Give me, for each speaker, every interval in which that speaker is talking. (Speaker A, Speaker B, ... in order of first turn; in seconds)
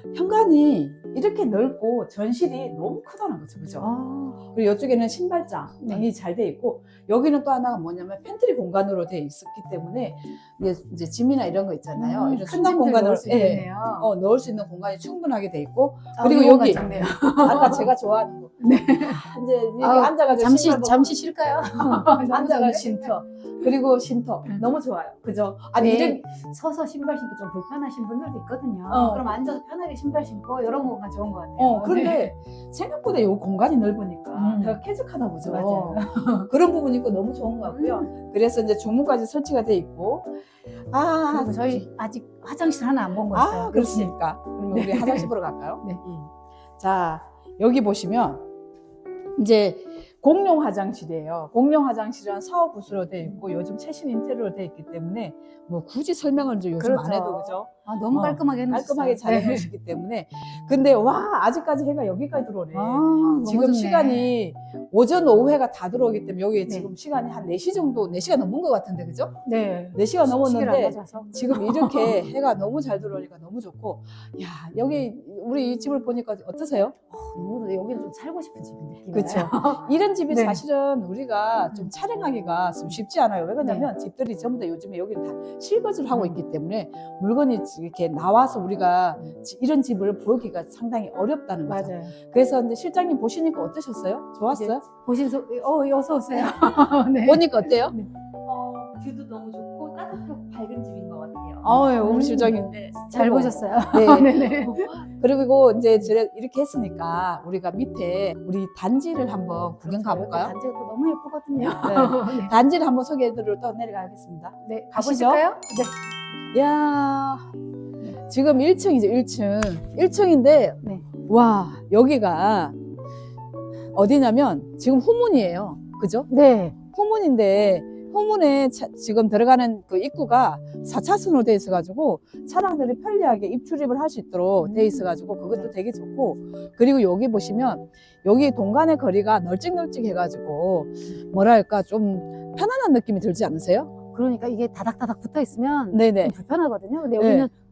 Speaker A: 0.1-3.9, 4.5-16.9, 17.4-21.2, 21.8-26.2, 28.9-29.2, 31.6-40.4, 40.9-41.9, 43.3-48.4, 49.4-69.3, 69.9-77.0, 79.1-94.8, 96.4-98.0, 101.6-110.5, 111.8-115.4, 116.5-117.5, 118.1-122.8, 123.9-126.3, 126.9-143.9, 145.9-146.4, 147.2-147.5
Speaker B: 3.8-4.4, 11.9-14.1, 16.2-17.9, 18.6-19.2, 19.8-23.1, 25.8-32.3, 34.3-34.8, 35.4-36.5, 37.6-38.1, 41.3-44.1, 44.7-45.3, 56.8-59.7, 62.7-64.3, 69.5-72.2, 77.1-80.6, 83.6-83.9, 86.1-86.4, 91.7-92.1, 94.5-98.1, 101.7-105.0, 109.9-112.5, 114.7-115.9, 126.3-126.8, 134.6-135.7, 144.1-147.5
Speaker C: 98.5-101.7, 102.5-103.1